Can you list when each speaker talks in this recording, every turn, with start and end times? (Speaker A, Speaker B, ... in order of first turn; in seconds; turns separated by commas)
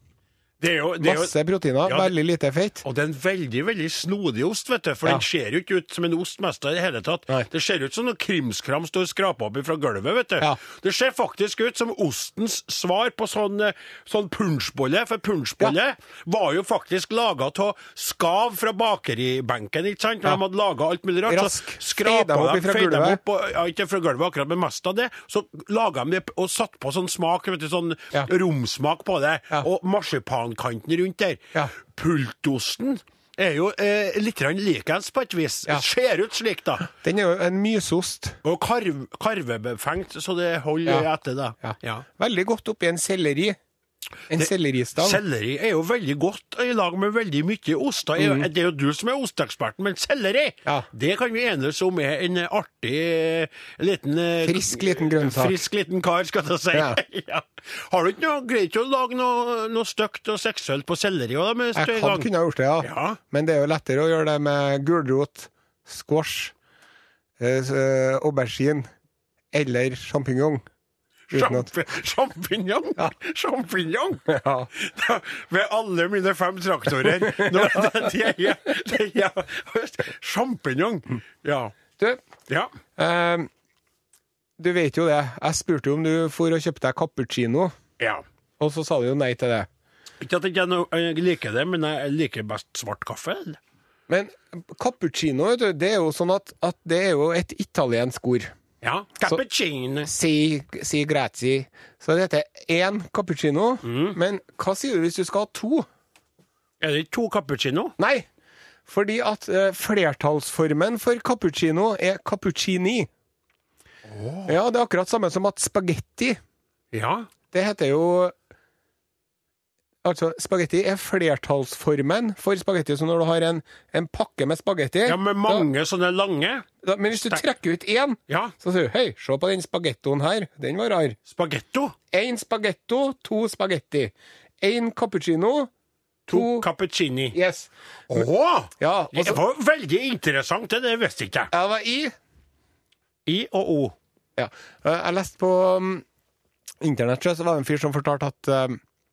Speaker A: 0.6-2.1, Speaker B: 1.0-2.8, Speaker A: 2.8-36.9, Speaker B: 21.3-23.2, Speaker B: 36.9-38.4, Speaker A: 38.4-42.0, Speaker B: 41.6-43.6, Speaker B: 44.3-45.2, Speaker A: 44.3-63.2, Speaker B: 48.2-48.5, Speaker B: 54.4-55.6, Speaker B: 56.7-57.0, Speaker B: 61.8-66.5, Speaker B: 67.4-68.9, Speaker B: 69.5-70.7, Speaker A: 71.3-81.8, Speaker B: 71.3-71.7, Speaker B: 74.3-74.7, Speaker B: 77.0-78.1, Speaker B: 83.0-83.5, Speaker B: 84.6-87.7, Speaker A: 88.0-88.2, Speaker B: 88.6-89.7, Speaker A: 90.2-93.6, Speaker B: 94.1-98.5, Speaker A: 98.8-100.1, Speaker B: 100.0-105.9, Speaker A: 103.8-104.2, Speaker A: 106.8-107.9, Speaker B: 108.0-108.3, Speaker B: 108.9-113.1, Speaker A: 114.1-114.5, Speaker B: 114.5-116.4, Speaker A: 116.9-117.3, Speaker B: 117.5-118.3, Speaker B: 120.0-125.7, Speaker A: 125.1-127.4, Speaker B: 126.8-131.2, Speaker A: 128.3-128.5, Speaker A: 131.3-131.9, Speaker B: 132.1-135.7, Speaker A: 136.3-137.4, Speaker B: 136.3-136.7, Speaker B: 137.3-138.3, Speaker A: 138.1-141.5, Speaker B: 138.8-139.4, Speaker B: 141.5-142.1, Speaker A: 143.3-144.0, Speaker B: 144.4-146.1, Speaker B: 146.8-148.8